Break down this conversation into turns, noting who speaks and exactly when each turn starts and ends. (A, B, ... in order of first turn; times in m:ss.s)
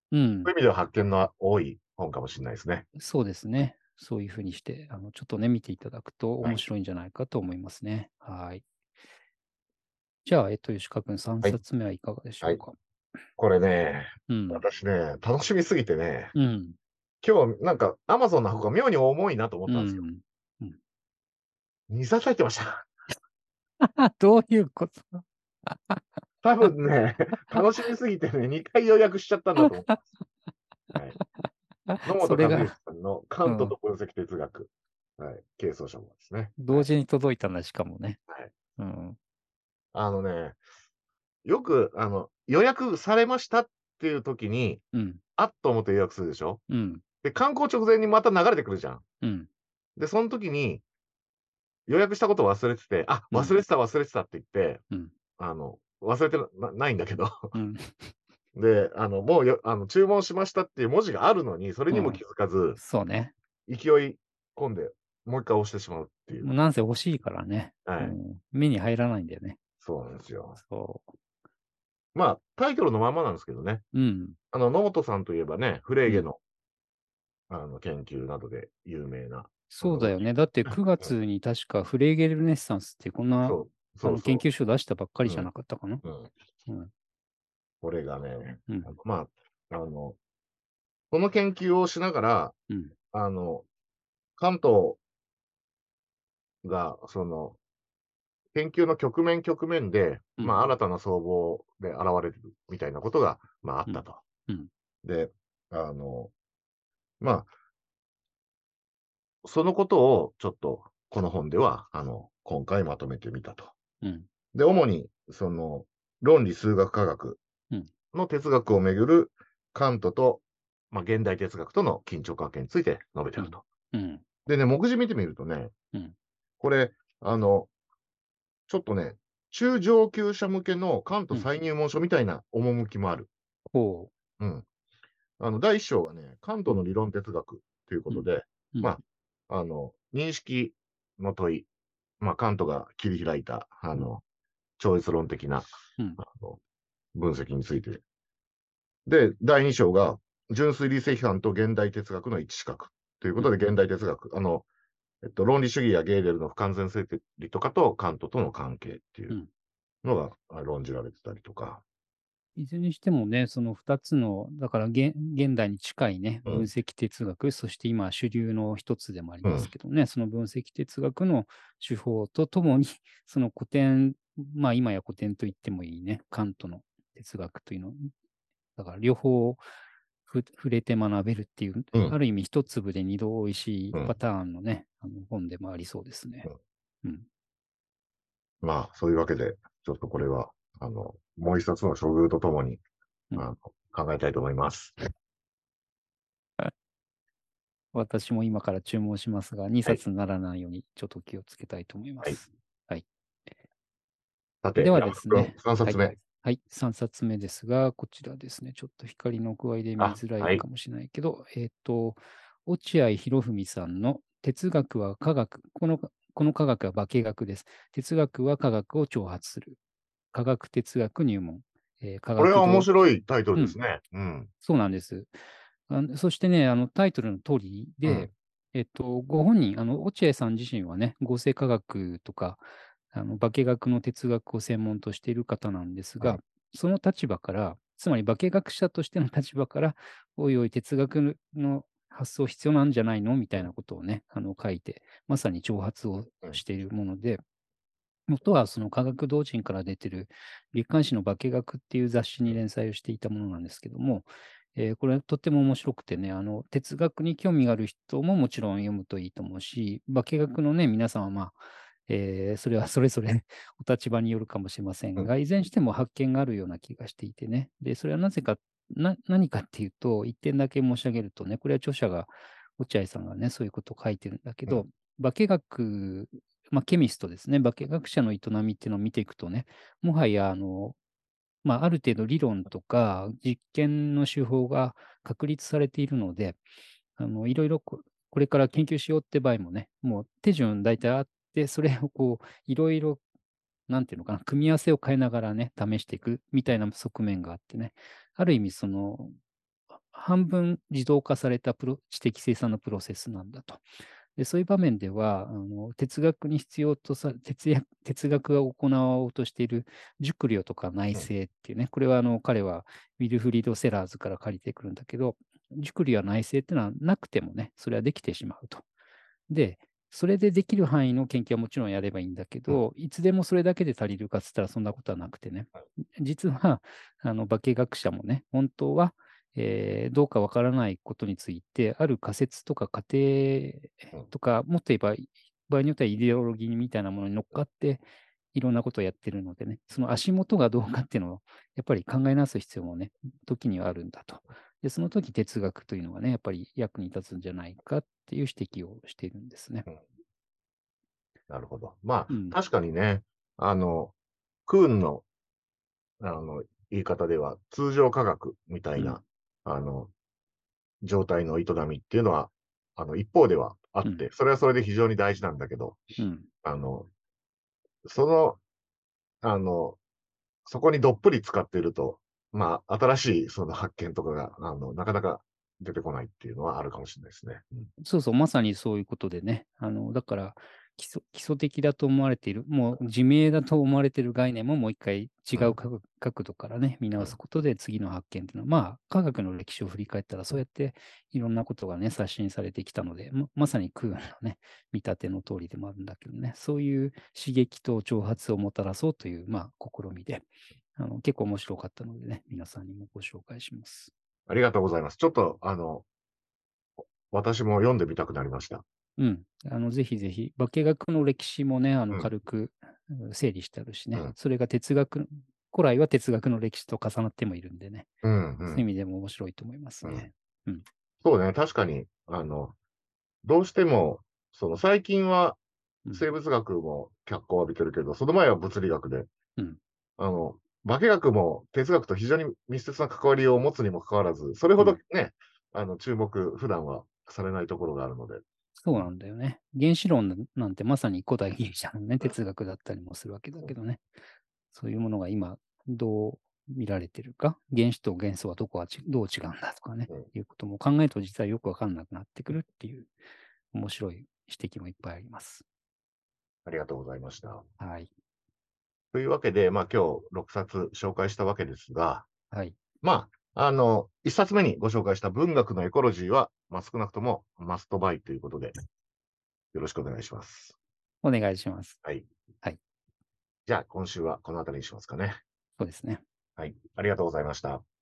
0:00.1-0:00.5 A
0:00.4-0:02.9 B
0:03.0-0:08.6 A
0:10.3-0:12.8 A
0:13.4-0:16.3 B
0:14.3-0:14.6 A
0:16.3-0:16.8 A
0:17.2-0:20.0 B
0:19.7-0:20.8 A
0:21.9-0:22.9 B
0:23.8-0:26.0 A
0:26.4-0:30.0 B
0:29.6-0:30.0 A
0:31.2-0:32.7 A
0:32.0-0:36.9 B
0:33.4-0:33.8 A
0:36.6-0:38.2 A
0:38.8-0:39.2 A
0:39.9-0:40.6 B
0:41.4-0:44.8 B
0:44.9-0:45.2 A
0:45.4-0:46.6 B
0:46.7-0:47.0 A
0:47.2-0:49.0 B
0:49.2-0:49.5 A
0:50.0-0:50.8 B
0:51.9-0:54.8 B
0:53.3-0:53.6 A
0:55.4-0:57.5 B
0:57.5-0:58.1 A
0:58.6-1:02.8 B
1:01.9-1:02.2 A
1:02.8-1:03.3 A
1:03.7-1:06.5 B
1:06.4-1:09.6 A
1:07.9-1:08.2 B
1:09.8-1:10.6 B
1:10.6-1:11.1 A
1:12.1-1:13.8 B
1:13.9-1:14.4 A
1:14.5-1:16.4 B
1:17.5-1:21.1 B
1:19.7-1:26.0 A
1:23.4-1:24.5 B
1:25.2-1:25.5 B
1:26.0-1:26.3 B
1:27.8-1:30.2 B
1:28.7-1:28.9 A
1:31.1-1:32.6 B
1:32.7-1:32.9 A
1:33.1-1:33.6 B
1:34.4-1:35.0 B
1:36.6-1:37.6 B
1:38.5-1:44.2 B
1:40.4-1:40.7 A
1:43.9-1:44.7 A
1:45.0-1:46.3 B
1:47.2-1:47.5 B
1:49.4-1:53.7 B
1:54.0-1:54.3 A
1:54.5-1:57.4 B
1:58.1-2:03.6 B
2:03.4-2:04.2 A
2:04.5-2:05.7 B
2:06.6-2:07.7 B
2:08.7-2:13.3 B
2:13.7-2:14.1 A
2:14.4-2:14.6 B
2:15.4-2:21.7 B
2:18.1-2:19.0 A
2:22.2-2:24.2 B
2:24.8-2:25.6 B
2:26.2-2:26.6 B
2:27.1-2:28.0 B
2:29.1-2:34.6 B
2:35.2-2:39.4 B
2:40.0-2:41.8 B
2:42.6-2:58.1 A
2:49.4-2:49.7 B
2:58.8-2:59.6 A
3:00.3-3:06.5 A
3:08.6-3:12.8 B
3:13.4-3:15.0 B
3:17.9-3:23.1 A
3:24.6-3:26.1 B
3:24.8-3:39.8 A
3:30.0-3:30.6 B
3:40.3-3:42.9 A
3:42.4-3:44.5 B
3:44.6-3:45.3 A
3:45.9-4:07.4 A
4:08.3-4:41.0 A
4:41.6-4:46.6 A
4:47.2-4:53.2 A
4:53.9-4:59.4 A
5:00.1-5:03.8 A
5:04.4-5:18.8 A
5:19.5-5:49.9 A
5:51.5-5:54.1 B
5:52.3-5:52.6 A
5:54.7-5:55.3 B
5:56.2-6:00.1 B
6:01.0-6:06.0 B
6:06.2-6:06.5 A
6:06.6-6:07.1 B
6:08.0-6:08.6 B
6:09.4-6:10.0 B
6:10.6-6:17.9 B
6:18.0-6:44.1 A
6:44.5-6:46.1 B
6:47.3-6:48.8 B
6:49.2-6:58.1 A
6:58.2-6:58.8 B
6:58.7-7:00.8 A
7:01.2-7:02.8 B
7:03.4-7:05.6 B
7:06.1-7:09.3 B
7:10.2-7:19.1 B
7:18.8-7:24.0 A
7:24.7-7:33.1 A
7:33.7-7:35.6 A
7:36.6-7:37.6 B
7:37.8-7:38.1 A
7:39.1-7:42.3 B
7:42.5-7:42.8 A
7:43.0-7:48.7 B
7:49.7-7:50.8 B
7:51.2-7:52.0 A
7:53.7-7:55.4 B
7:55.8-7:56.2 A
7:56.6-7:57.8 B